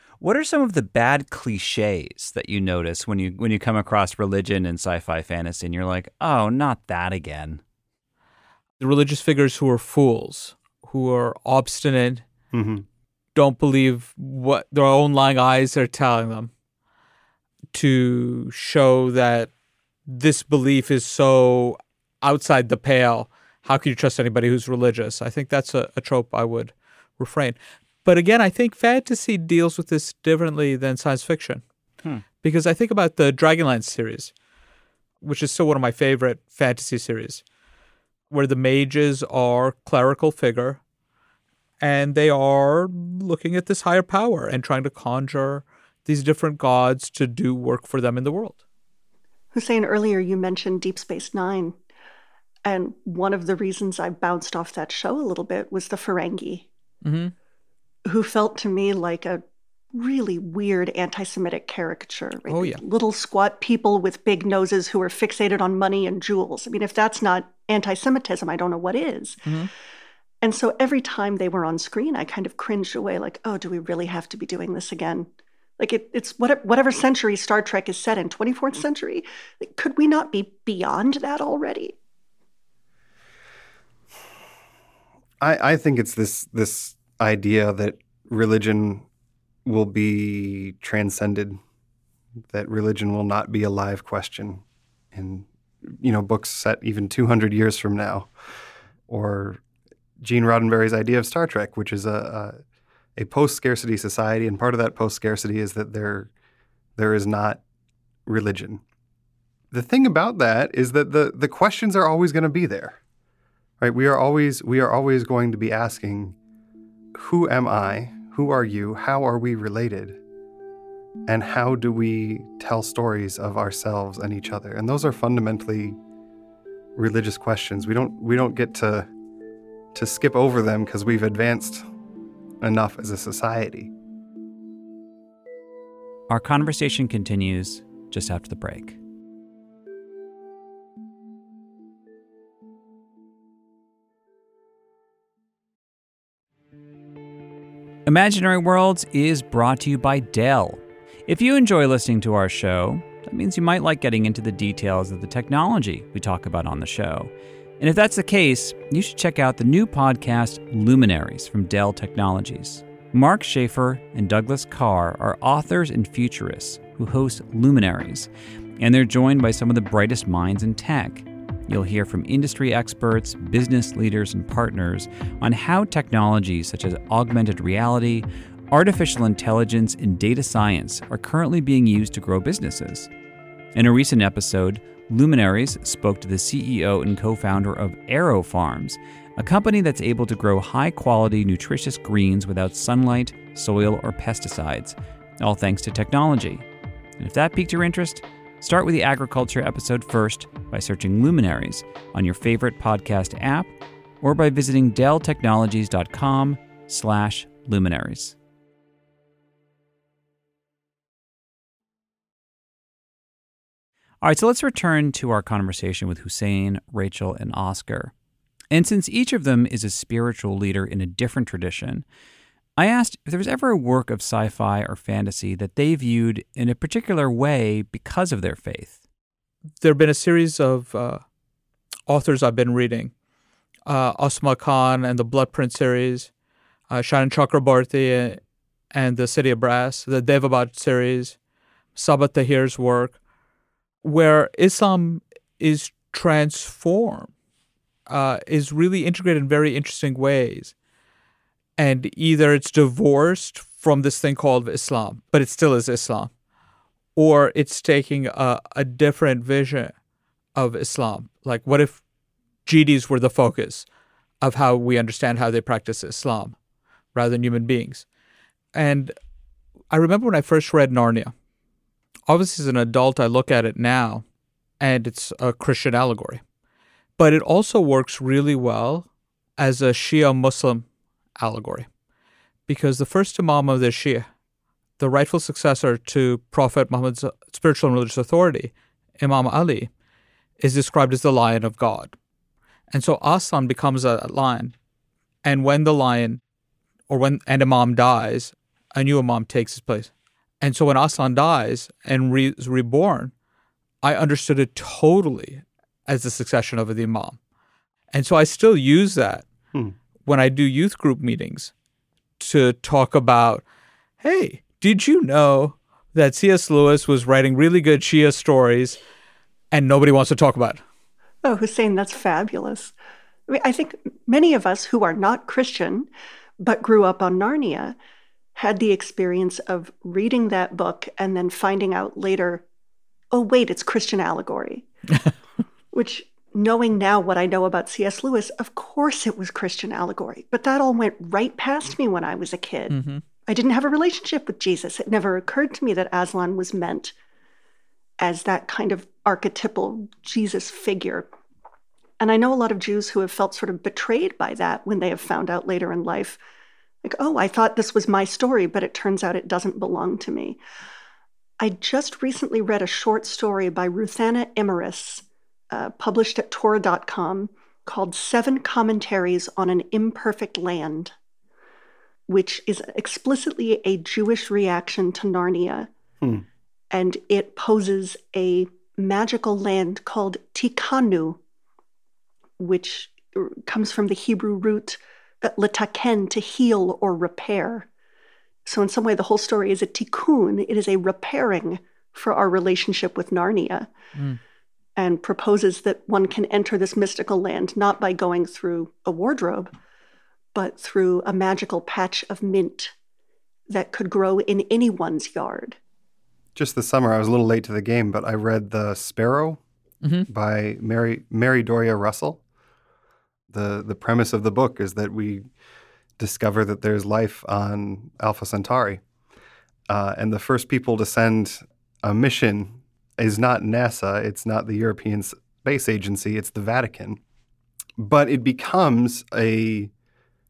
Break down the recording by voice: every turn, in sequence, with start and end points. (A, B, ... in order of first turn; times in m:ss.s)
0:00.2-0:07.6 A
0:08.8-0:12.2 B
0:12.5-0:12.9 C
0:13.4-0:16.5 B
0:17.7-0:19.5 B
0:20.1-0:31.6 B
0:32.4-0:34.3 B
0:35.2-0:37.4 B
0:38.3-0:40.8 B
0:41.8-0:48.6 B
0:49.5-0:51.8 D
0:52.6-0:56.7 D
0:57.0-0:57.3 B
0:58.0-0:59.4 D
0:59.9-1:09.4 D
1:02.5-1:02.8 B
1:09.4-1:09.7 B
1:10.4-1:15.3 D
1:15.8-1:22.0 D
1:25.4-1:29.0 C
1:29.6-1:31.6 C
1:32.5-1:38.3 C
1:39.1-1:39.6 C
1:40.2-1:42.6 C
1:43.2-1:46.3 C
1:47.0-1:47.6 C
1:48.3-1:48.8 C
1:49.7-1:53.0 C
1:53.8-1:56.4 C
1:57.2-2:00.2 C
2:01.3-2:06.0 C
2:07.0-2:09.1 C
2:09.9-2:11.8 C
2:12.6-2:13.9 C
2:16.3-2:19.0 A
2:28.1-3:03.1 A
3:03.7-3:16.7 A
3:17.2-3:28.4 A
3:34.2-3:38.1 A
3:38.7-3:42.0 A
3:42.8-3:49.0 A
3:49.8-3:51.2 B
3:52.1-3:53.1 B
3:53.9-3:56.3 B
3:56.9-3:58.4 B
3:58.9-4:01.4 B
4:02.0-4:03.2 B
4:04.0-4:07.3 B
4:08.1-4:10.7 B
4:11.8-4:16.3 B
4:17.2-4:19.9 B
4:20.6-4:22.0 B
4:22.7-4:23.8 B
4:24.4-4:26.6 B
4:27.1-4:28.0 B
4:28.8-4:29.2 B
4:29.9-4:31.3 B
4:32.3-4:34.2 B
4:34.8-4:36.4 B
4:37.2-4:39.1 B
4:39.6-4:40.9 B
4:41.4-4:41.9 B
4:42.7-4:44.3 B
4:45.0-4:49.9 B
4:50.6-4:52.2 B
4:52.9-4:54.7 B
4:55.4-4:56.4 B
4:57.1-5:03.3 B
5:04.0-5:07.4 B
5:08.1-5:09.5 B
5:10.2-5:11.7 B
5:12.4-5:13.6 B
5:14.2-5:19.0 B
5:19.7-5:20.8 B
5:21.4-5:22.9 D
5:23.5-5:26.1 D
5:26.6-5:28.0 D
5:28.6-5:32.6 D
5:33.3-5:34.9 D
5:35.9-5:43.0 D
5:42.9-5:43.2 B
5:43.5-5:47.1 D
5:48.2-5:51.3 D
5:52.2-5:56.4 D
5:57.0-6:00.6 D
6:01.6-6:11.1 D
6:12.3-6:15.9 D
6:16.9-6:21.4 D
6:22.6-6:27.9 D
6:28.7-6:33.9 D
6:35.0-6:39.7 D
6:40.5-6:42.9 D
6:43.7-6:45.8 D
6:46.6-6:49.6 C
6:50.0-6:50.3 B
6:50.3-6:52.4 C
6:53.5-6:55.4 C
6:56.2-6:59.0 C
6:59.9-7:07.2 C
7:08.0-7:09.9 C